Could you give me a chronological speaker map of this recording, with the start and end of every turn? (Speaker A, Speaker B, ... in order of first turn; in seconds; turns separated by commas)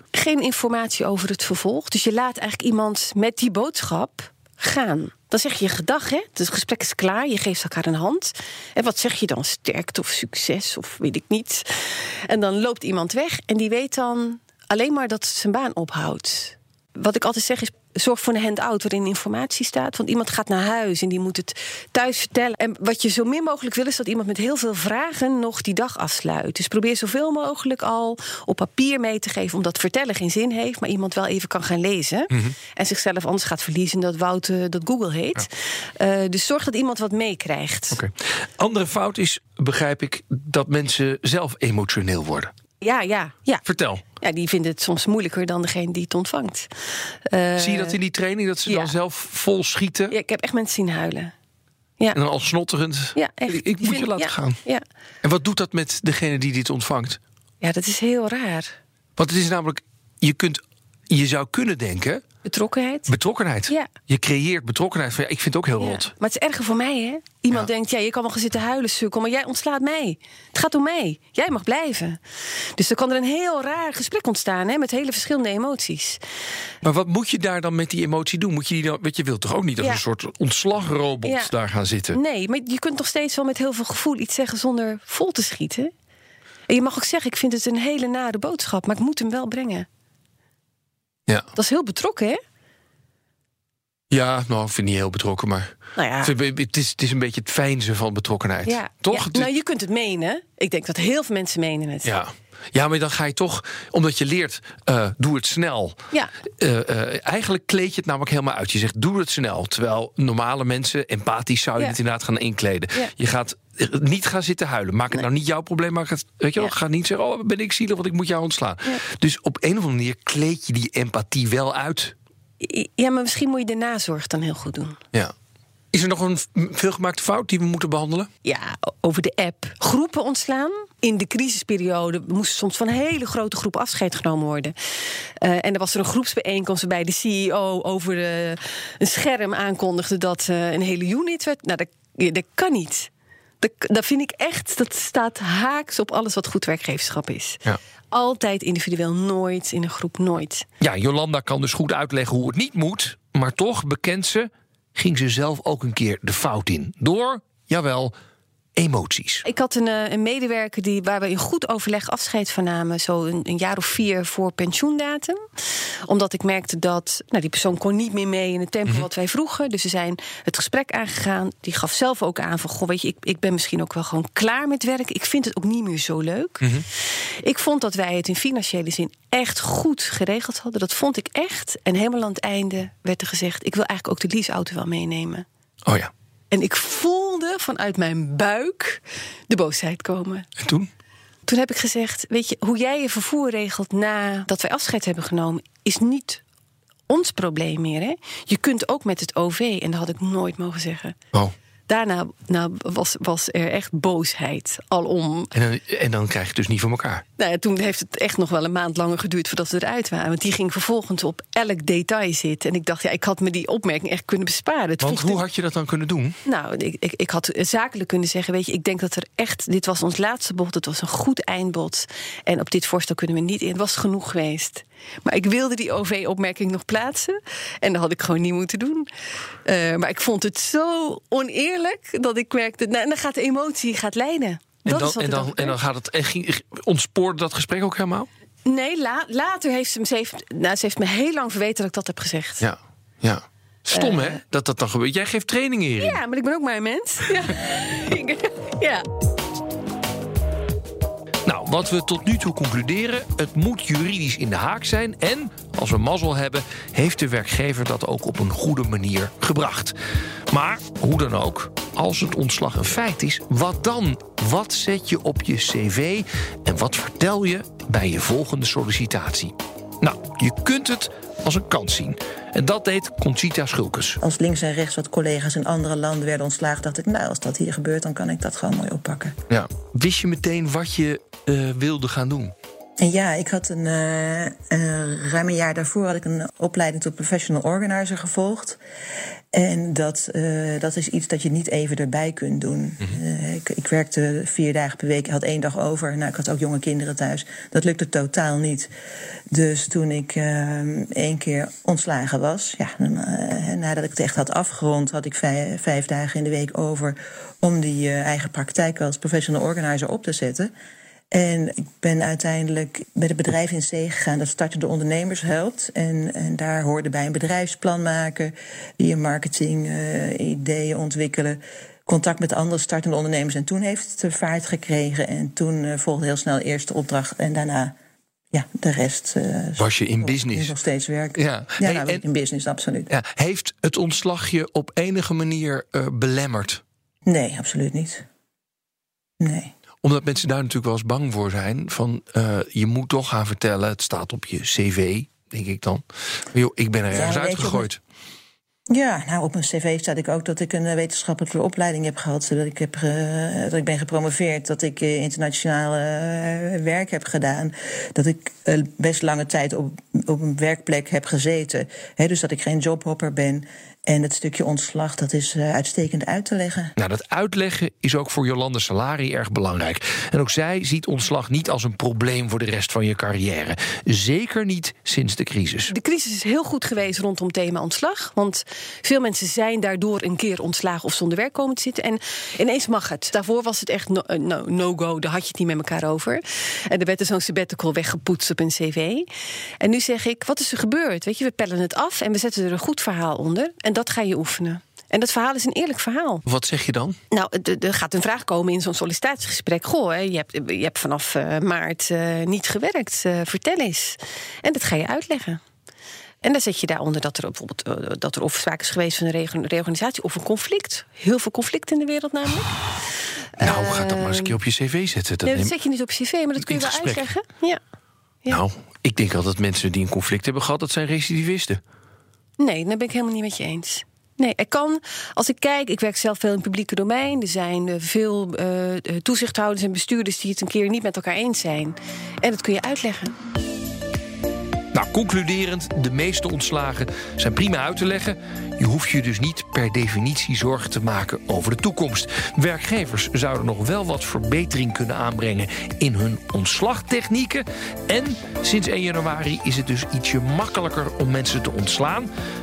Speaker A: 0.1-38.0, Speaker B: 32.3-32.6, Speaker B: 37.9-42.5, Speaker A: 42.8-43.6, Speaker B: 43.6-44.0, Speaker A: 44.2-48.0, Speaker B: 47.6-50.1, Speaker A: 48.7-48.9, Speaker A: 50.1-51.3, Speaker B: 52.1-54.6, Speaker A: 53.1-54.9, Speaker B: 55.2-57.2, Speaker A: 57.6-58.8, Speaker B: 59.2-62.2, Speaker A: 62.5-63.1, Speaker B: 63.1-66.1, Speaker A: 65.8-72.2, Speaker A: 72.8-76.2, Speaker B: 76.8-82.2, Speaker A: 81.2-81.5, Speaker A: 82.1-85.9, Speaker A: 86.7-89.9, Speaker A: 91.5-92.4, Speaker B: 94.1-99.5, Speaker A: 96.0-96.3, Speaker A: 98.7-102.1, Speaker B: 102.0-106.0, Speaker B: 106.6-122.2, Speaker A: 122.6-125.0, Speaker B: 125.9-128.3, Speaker A: 128.4-134.8, Speaker A: 135.4-143.1, Speaker A: 143.6-147.6, Speaker A: 148.1-150.7, Speaker B: 150.8-158.2, Speaker B: 158.8-159.4, Speaker A: 159.4-165.4, Speaker A: 166.1-176.7, Speaker B: 176.6-176.9, Speaker A: 177.4-185.4, Speaker B: 185.8-186.1, Speaker A: 186.5-190.5, Speaker B: 190.6-190.9, Speaker A: 191.5-196.4, Speaker A: 197.1-201.2, Speaker A: 201.9-205.5, Speaker B: 205.5-207.2, Speaker A: 207.4-215.4, Speaker B: 215.0-216.4, Speaker A: 216.4-229.1, Speaker A: 229.7-235.8, Speaker B: 234.8-238.3, Speaker A: 238.7-242.6, Speaker B: 242.6-246.2, Speaker A: 243.9-244.4, Speaker A: 246.0-249.1, Speaker B: 251.4-259.9, Speaker B: 260.5-274.2, Speaker C: 274.2-279.4, Speaker B: 279.5-282.5, Speaker C: 283.0-288.8, Speaker C: 289.5-298.9, Speaker C: 299.5-310.7, Speaker C: 311.3-327.9, Speaker C: 328.5-333.1, Speaker B: 329.8-330.8, Speaker B: 331.4-332.2, Speaker B: 333.1-336.8, Speaker C: 337.3-338.3, Speaker C: 339.4-339.7, Speaker B: 340.0-348.0, Speaker C: 347.1-347.9, Speaker C: 348.9-366.9, Speaker B: 367.0-375.9, Speaker A: 375.9-389.3, Speaker A: 389.8-396.4, Speaker B: 396.5-397.2, Speaker A: 397.3-405.6, Speaker A: 406.4-412.8, Speaker A: 413.6-414.6, Speaker B: 413.6-415.7, Speaker A: 415.4-417.8, Speaker B: 416.6-417.3, Speaker B: 418.5-421.8, Speaker A: 422.6-433.4, Speaker B: 434.9-452.3